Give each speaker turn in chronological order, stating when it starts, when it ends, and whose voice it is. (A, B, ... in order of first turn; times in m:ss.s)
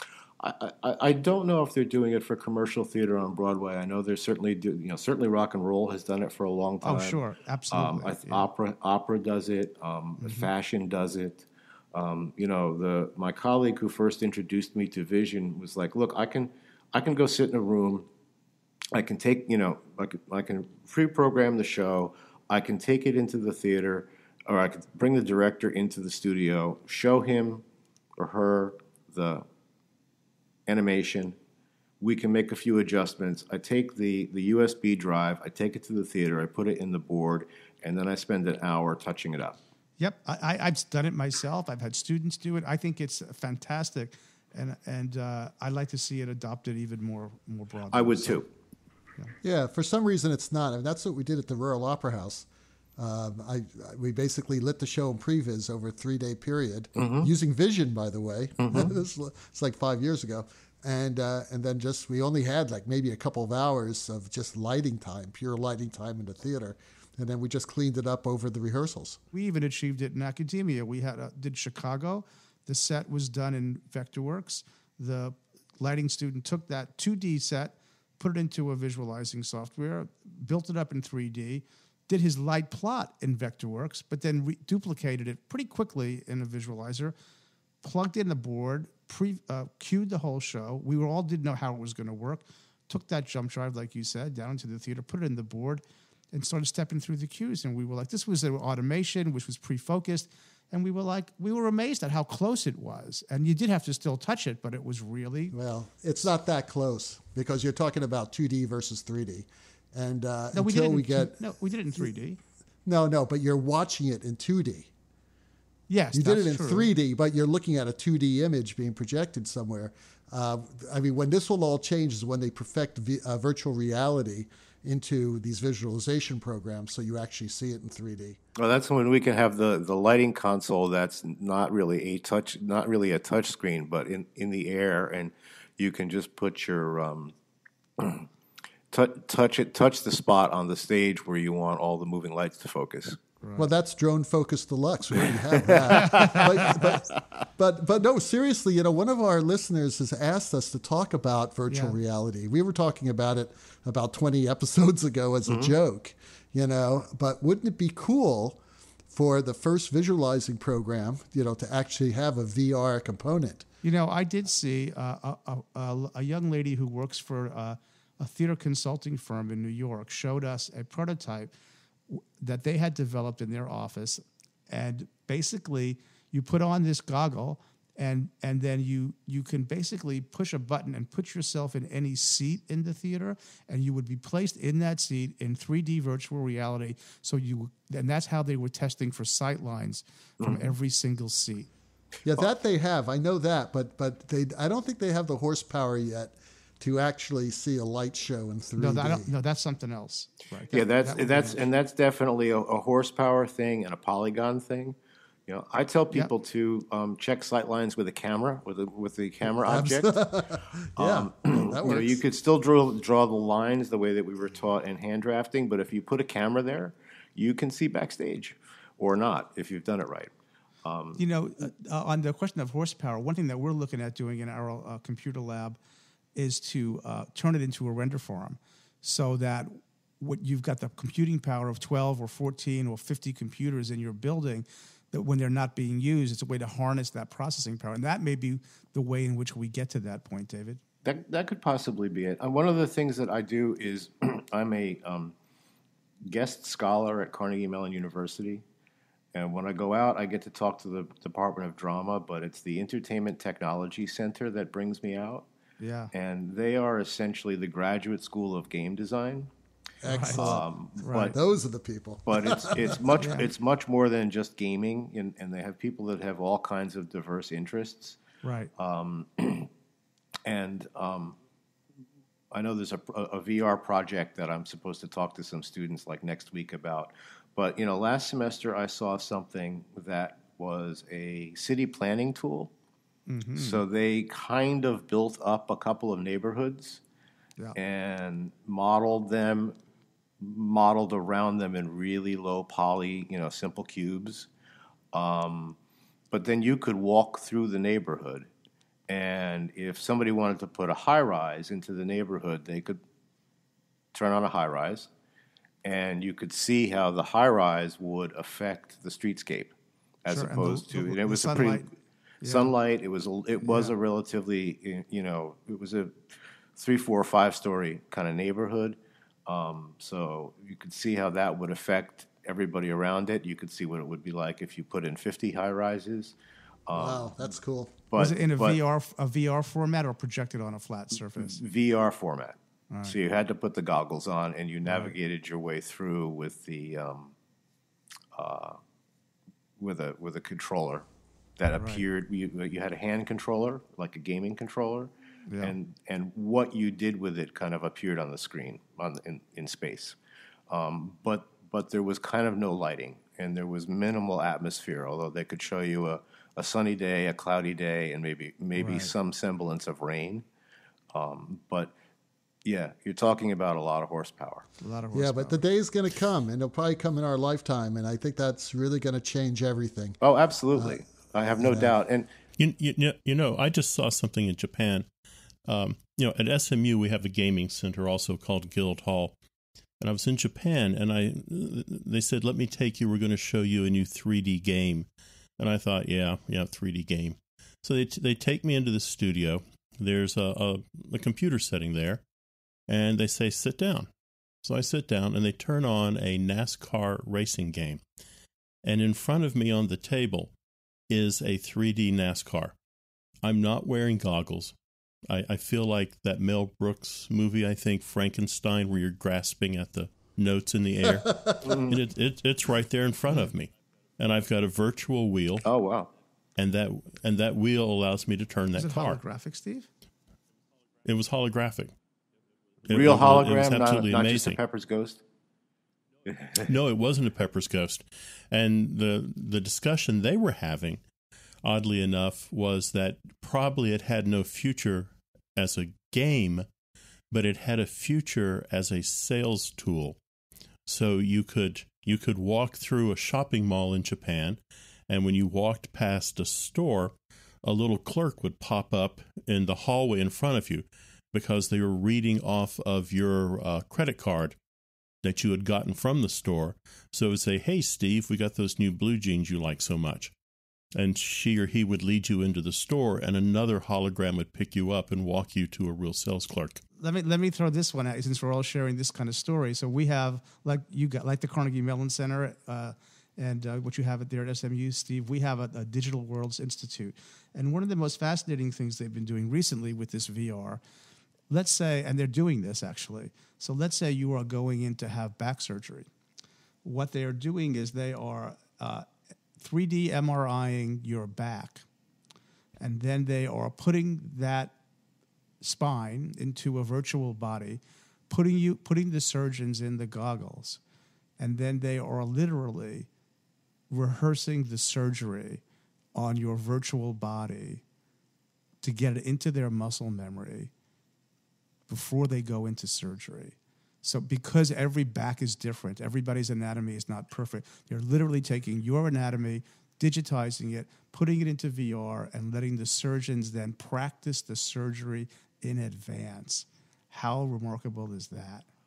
0:00.4-0:07.2 A
0:06.8-0:08.5 B
0:07.7-0:18.1 A
0:10.2-0:10.5 B
0:18.9-0:27.6 A
0:28.2-0:29.4 A
0:30.7-0:31.4 A
0:32.0-0:39.6 A
0:40.0-0:48.4 B
0:47.9-0:48.5 A
0:49.4-1:09.2 C
0:57.0-0:57.3 A
0:58.6-0:58.9 A
1:09.3-1:27.2 B
1:27.8-1:45.6 B
1:45.5-1:51.5 C
1:50.5-1:52.4 B
1:52.8-1:54.9 C
1:55.9-1:56.9 B
1:56.1-2:08.4 C
2:08.6-2:17.3 A
2:18.0-2:18.3 A
2:18.9-2:23.2 A
2:23.4-2:23.7 B
2:23.6-2:43.6 C
2:25.5-2:26.8 A
2:26.0-2:26.7 B
2:31.7-2:32.0 B
2:35.5-2:35.7 A
2:43.8-2:51.5 B
2:52.1-3:11.7 B
3:10.4-3:10.7 A
3:12.2-3:19.3 C
3:18.8-3:21.6 B
3:20.7-3:25.0 A
3:25.5-3:30.1 A
3:29.5-3:32.2 C
3:31.0-3:40.3 A
3:40.8-3:41.2 A
3:41.2-3:45.8 B
3:46.4-4:00.8 B
4:01.0-4:05.3 A
4:06.3-4:08.6 A
4:09.3-4:15.5 A
4:15.8-4:16.1 B
4:16.1-4:19.5 A
4:20.0-4:23.0 C
4:20.0-4:21.4 B
4:20.3-4:21.4 A
4:22.3-4:28.2 A
4:23.2-4:23.5 B
4:28.4-4:28.7 B
4:28.8-4:29.7 A
4:30.4-4:31.4 A
4:32.5-4:42.7 A
4:43.3-4:43.8 B
4:43.6-4:47.0 A
4:47.8-4:49.8 A
4:50.4-4:54.5 A
4:55.1-4:55.8 A
4:56.3-4:58.5 A
4:59.1-5:03.0 A
5:04.1-5:05.1 A
5:05.8-5:11.8 A
5:10.3-5:11.9 B
5:12.4-5:12.7 B
5:12.4-5:16.1 A
5:13.6-5:13.9 B
5:16.8-5:26.4 A
5:26.9-5:27.5 A
5:26.9-5:28.0 C
5:28.1-5:28.8 A
5:28.2-5:31.6 B
5:31.4-5:37.3 A
5:32.9-5:33.2 B
5:34.9-5:35.1 B
5:38.3-5:38.8 A
5:39.8-5:41.1 A
5:41.6-5:50.2 A
5:41.8-5:42.0 B
5:45.5-5:45.8 B
5:50.7-6:00.4 A
5:58.8-5:59.1 B
6:01.1-6:01.9 A
6:02.6-6:04.7 A
6:04.8-6:05.6 B
6:05.1-6:10.2 C
6:10.2-6:12.3 A
6:11.6-6:11.9 C
6:12.6-6:15.1 D
6:15.7-6:19.4 D
6:20.0-6:25.1 D
6:25.6-6:32.2 D
6:32.9-6:34.1 D
6:34.6-6:38.0 D
6:38.8-6:40.5 D
6:41.1-6:42.8 D
6:43.4-6:44.8 D
6:45.3-6:55.7 D
6:51.2-6:51.6 C
6:51.6-6:52.0 A
6:55.6-6:56.1 A
6:56.6-6:59.2 D
6:58.8-6:59.9 B
7:01.0-7:01.9 D
7:02.9-7:04.6 D
7:02.9-7:05.2 A
7:06.6-7:11.0 D
7:11.6-7:16.7 D
7:17.3-7:20.2 D
7:20.9-7:34.6 D
7:35.2-7:40.3 D
7:41.0-7:46.8 D
7:47.0-8:00.8 B
8:01.5-8:06.1 B
8:06.8-8:09.1 B
8:09.6-8:11.9 B
8:12.8-8:14.7 B
8:15.6-8:20.8 B
8:21.4-8:23.1 B
8:23.9-8:25.6 B
8:26.2-8:27.8 B
8:28.8-8:30.7 B
8:31.9-8:48.6 B